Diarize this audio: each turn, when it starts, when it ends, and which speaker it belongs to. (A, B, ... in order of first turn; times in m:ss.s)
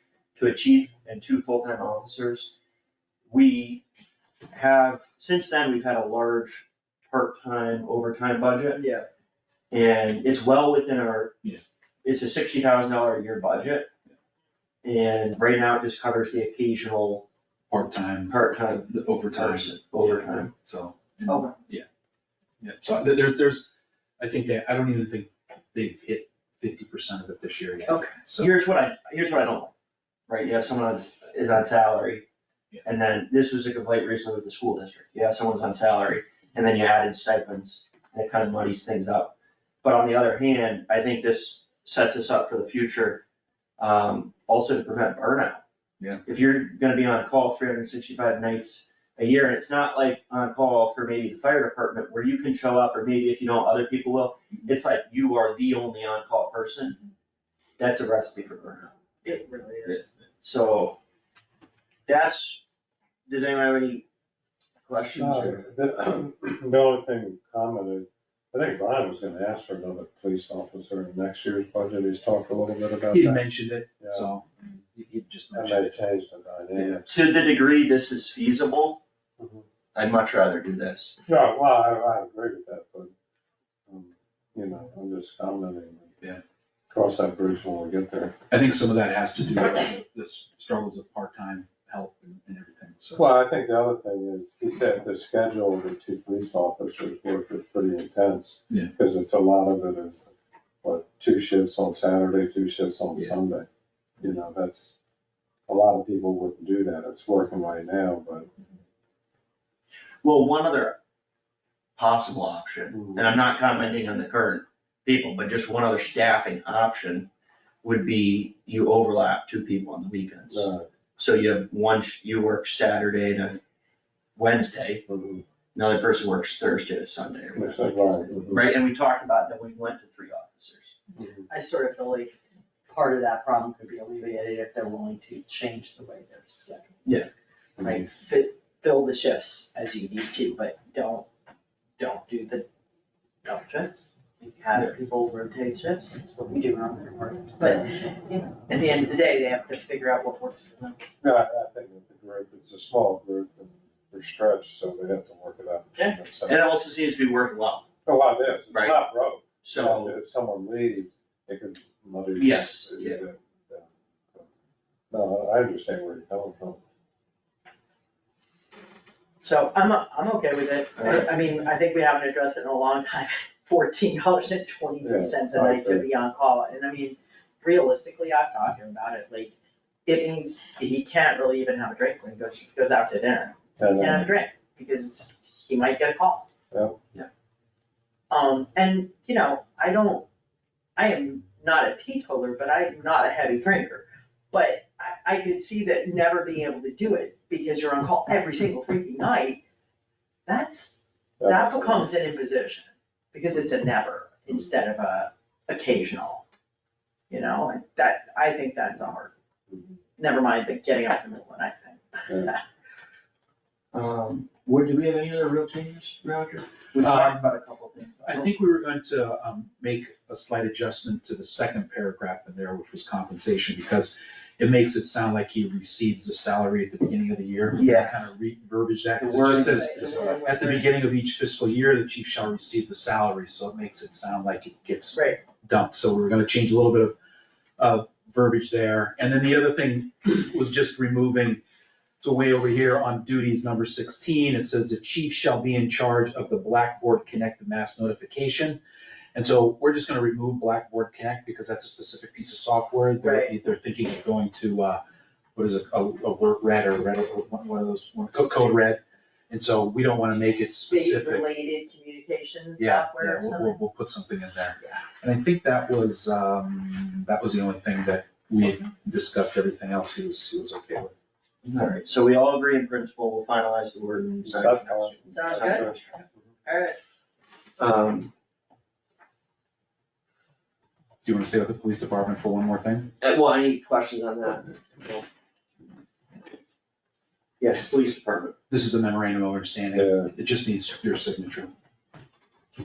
0:00.4-0:02.5 A
0:03.3-0:03.8 A
0:04.5-0:08.8 A
0:08.8-0:09.1 B
0:09.7-0:11.4 A
0:12.0-0:13.9 A
0:14.8-0:17.3 A
0:17.7-0:21.9 C
0:18.3-0:20.5 A
0:21.3-0:21.5 B
0:22.6-0:28.6 C
0:27.9-0:28.1 B
0:28.4-0:29.7 A
0:30.3-0:32.3 A
0:32.8-0:43.2 A
0:43.8-0:45.6 A
0:46.2-0:57.0 A
0:57.8-0:58.9 A
0:59.2-1:00.0 B
0:59.8-1:01.0 A
1:02.1-1:02.6 A
1:03.3-1:04.0 A
1:04.9-1:05.7 A
1:05.1-1:13.4 D
1:13.1-1:16.0 C
1:14.0-1:14.3 D
1:15.5-1:17.2 D
1:16.8-1:17.0 C
1:17.1-1:19.0 A
1:19.4-1:19.6 D
1:20.0-1:21.2 A
1:21.3-1:23.1 D
1:23.9-1:26.1 D
1:26.9-1:28.4 D
1:28.5-1:33.3 C
1:33.2-1:40.3 D
1:40.8-1:43.7 D
1:44.2-1:44.9 D
1:45.7-1:48.5 D
1:50.2-1:51.0 A
1:52.0-1:57.3 A
1:52.9-1:53.3 D
1:57.8-2:03.6 A
2:00.5-2:00.9 D
2:04.4-2:05.0 A
2:05.1-2:05.4 D
2:05.8-2:11.0 A
2:07.6-2:08.6 D
2:11.2-2:11.5 D
2:11.5-2:12.3 B
2:12.9-2:17.0 B
2:17.8-2:18.1 D
2:17.8-2:21.3 B
2:22.0-2:22.7 B
2:23.4-2:31.1 B
2:31.2-2:36.7 D
2:36.0-2:37.9 A
2:38.0-2:44.5 D
2:38.7-2:39.0 A
2:39.6-2:40.2 A
2:42.4-2:43.2 A
2:45.1-2:46.8 D
2:49.4-2:59.5 B
2:51.0-2:51.3 A
2:55.0-2:56.1 D
3:00.1-3:06.5 B
3:03.8-3:04.3 D
3:06.7-3:07.0 D
3:08.3-3:10.3 B
3:11.0-3:19.6 B
3:20.5-3:26.4 B
3:21.4-3:22.1 D
3:27.3-3:29.3 B
3:30.2-3:32.6 B
3:33.9-3:38.5 A
3:37.0-3:37.5 C
3:38.3-3:57.2 C
3:47.8-3:48.4 A
3:49.2-3:50.9 A
3:49.7-3:50.6 B
3:55.1-3:55.4 B
3:57.8-4:01.6 C
4:02.2-4:08.8 C
4:09.3-4:15.0 C
4:13.2-4:13.5 B
4:15.6-4:21.5 C
4:20.4-4:23.8 B
4:22.8-4:31.1 C
4:31.6-4:36.2 A
4:34.4-4:36.0 D
4:35.3-4:35.9 B
4:36.7-4:37.0 B
4:37.8-4:38.3 A
4:41.2-4:43.1 C
4:43.2-4:45.2 A
4:47.6-4:48.6 A
4:48.7-4:51.7 C
4:49.9-4:50.3 D